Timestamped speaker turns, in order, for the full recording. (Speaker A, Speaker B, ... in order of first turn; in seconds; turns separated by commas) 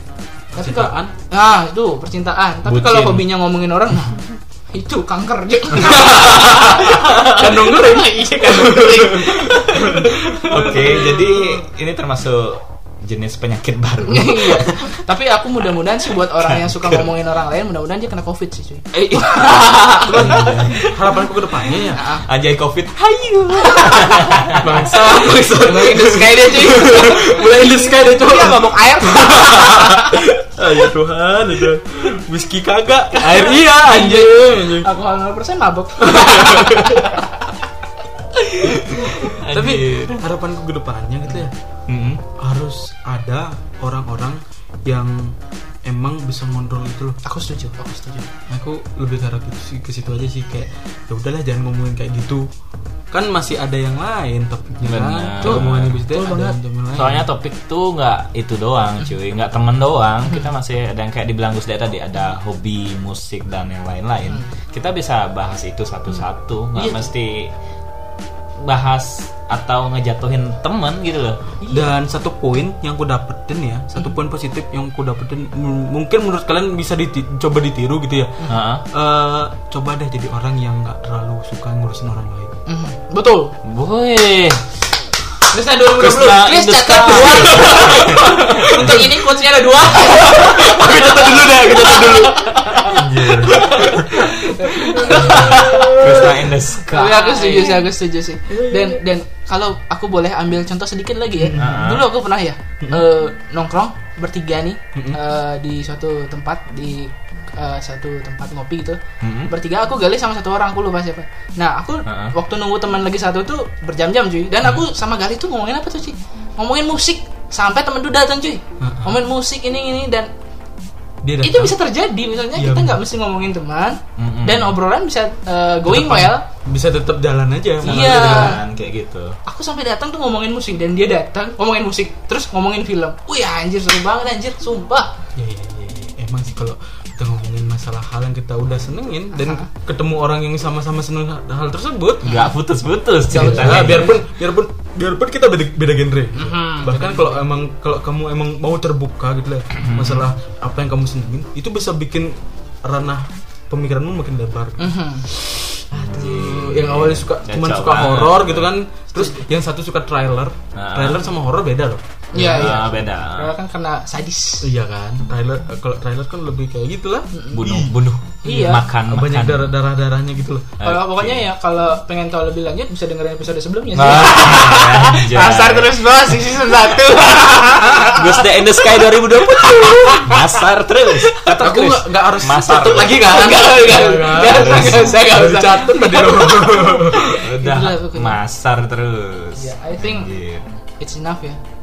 Speaker A: 0.6-11.3, Speaker B: 0.6-1.1, Speaker C: 2.6-3.3, Speaker B: 6.0-11.1, Speaker C: 10.3-15.0, Speaker A: 14.0-22.2, Speaker C: 16.4-17.1, Speaker B: 20.1-22.1, Speaker C: 20.1-20.8, Speaker C: 22.2-24.7, Speaker A: 23.5-30.2, Speaker B: 24.5-35.0, Speaker A: 33.1-37.6, Speaker B: 36.0-37.1, Speaker A: 38.3-39.3, Speaker C: 38.9-40.3, Speaker B: 39.3-41.5, Speaker C: 41.9-42.2, Speaker B: 42.4-47.2, Speaker A: 47.2-48.3, Speaker B: 48.5-52.5, Speaker B: 53.1-57.3, Speaker C: 54.8-56.0, Speaker A: 55.4-56.6, Speaker C: 57.0-67.5, Speaker A: 66.8-67.1, Speaker C: 68.6-71.4, Speaker A: 71.6-71.9, Speaker B: 71.7-82.6, Speaker C: 78.5-78.9, Speaker A: 82.7-83.5, Speaker C: 83.6-84.7, Speaker A: 85.5-96.3, Speaker C: 86.0-89.0, Speaker B: 87.4-88.2, Speaker B: 90.0-96.5, Speaker C: 92.9-94.0, Speaker C: 95.1-97.7, Speaker A: 96.9-120.3, Speaker B: 98.5-99.0, Speaker B: 101.4-101.8, Speaker C: 101.5-102.1, Speaker C: 109.2-109.5, Speaker C: 112.1-112.3, Speaker B: 118.8-119.2, Speaker B: 121.2-121.8, Speaker A: 121.4-126.5, Speaker B: 122.6-123.0, Speaker C: 124.2-124.8, Speaker B: 125.9-128.6, Speaker A: 127.8-128.6, Speaker C: 127.8-129.4, Speaker A: 129.4-135.1, Speaker B: 135.4-142.3, Speaker A: 139.3-139.7, Speaker C: 142.2-144.2, Speaker A: 142.2-142.5, Speaker B: 143.3-162.8, Speaker A: 146.3-147.4, Speaker C: 149.8-150.3, Speaker A: 154.8-155.3, Speaker C: 156.0-158.8, Speaker A: 159.1-159.4, Speaker C: 160.8-161.3, Speaker A: 162.3-164.7, Speaker C: 162.4-163.5, Speaker B: 164.6-170.7, Speaker A: 167.3-167.6, Speaker C: 167.5-169.8, Speaker A: 168.4-168.8, Speaker C: 170.8-171.5, Speaker A: 170.8-180.6, Speaker C: 173.9-176.0, Speaker C: 178.1-183.3, Speaker A: 181.3-181.6, Speaker B: 181.5-187.3, Speaker A: 182.7-188.4, Speaker C: 184.4-185.3, Speaker C: 187.3-190.7, Speaker A: 189.6-190.3, Speaker A: 191.0-191.6